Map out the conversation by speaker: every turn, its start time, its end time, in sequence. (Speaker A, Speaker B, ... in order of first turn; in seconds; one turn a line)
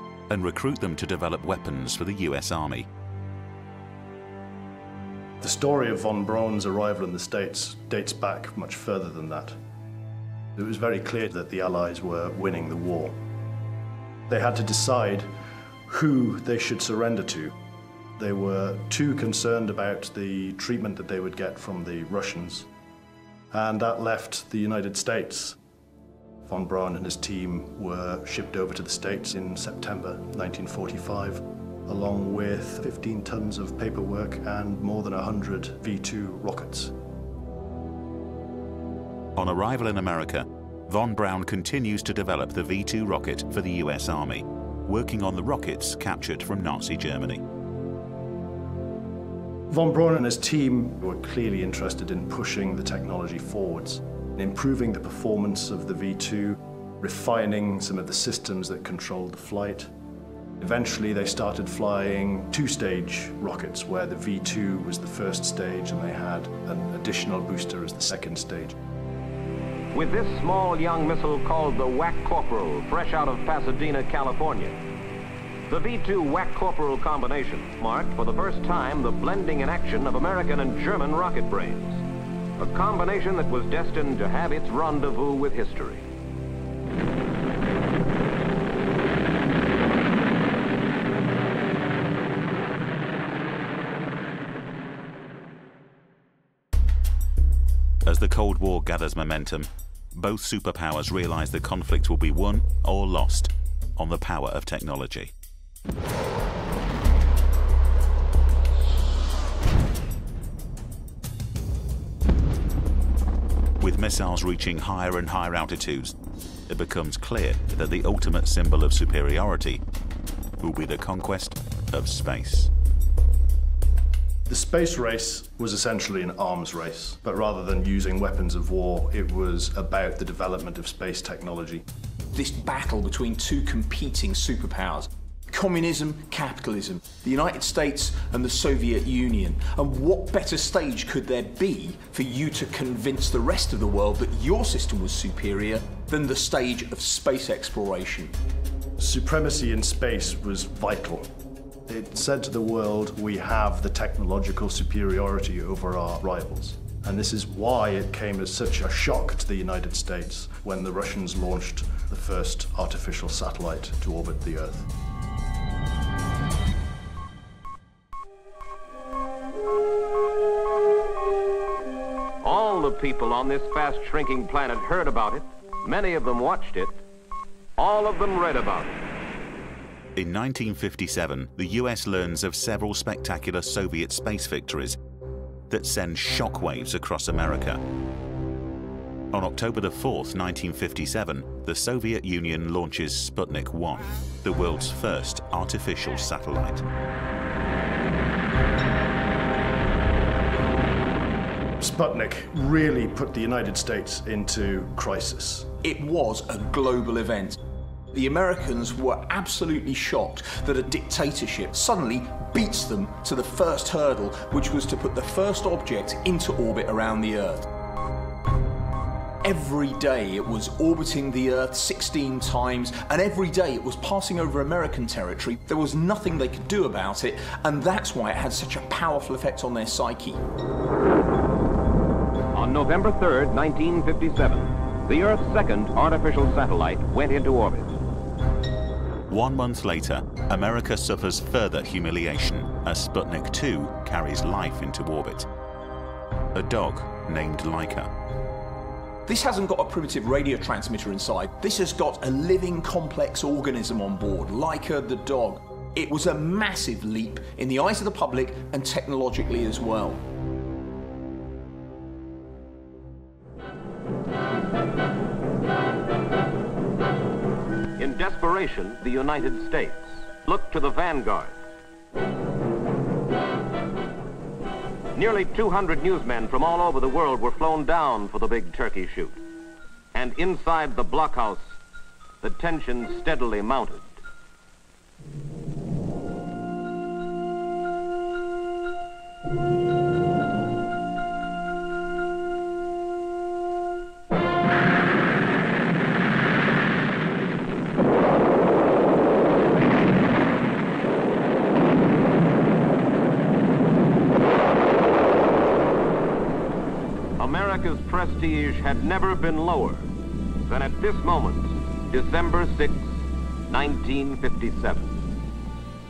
Speaker A: 0.3-2.9
Speaker B: 5.4-9.6
Speaker B: 10.6-13.1
Speaker B: 14.3-15.3
Speaker B: 15.9-17.5
Speaker B: 18.2-22.7
Speaker B: 23.5-25.6
Speaker B: 26.4-36.9
Speaker A: 39.4-47.4
Speaker B: 49.7-59.9
Speaker B: 60.6-68.8
Speaker C: 69.9-74.8
Speaker C: 75.7-82.0
Speaker C: 82.6-86.0
Speaker A: 98.0-105.3
Speaker A: 113.8-116.1
Speaker A: 116.7-119.8
Speaker A: 120.6-122.7
Speaker B: 124.5-131.8
Speaker D: 132.3-148.3
Speaker B: 149.0-151.3
Speaker B: 151.9-164.9
Speaker C: 172.4-177.0
Speaker C: 177.8-179.0
Speaker A: 180.1-185.0
Speaker A: 185.7-187.8
Speaker A: 189.3-196.8
Speaker B: 201.8-205.7
Speaker D: 205.8-207.6
Speaker D: 208.1-217.7
Speaker D: 219.4-230.4
Speaker C: 232.5-238.0
Speaker A: 239.3-245.5
Speaker A: 246.5-248.1
Speaker D: 249.2-260.2
Speaker C: 268.0-271.5
Speaker C: 275.1-279.4
Speaker C: 280.1-281.7
Speaker C: 282.4-284.2
Speaker C: 307.4-310.1
Speaker C: 310.6-313.1
Speaker C: 313.7-315.1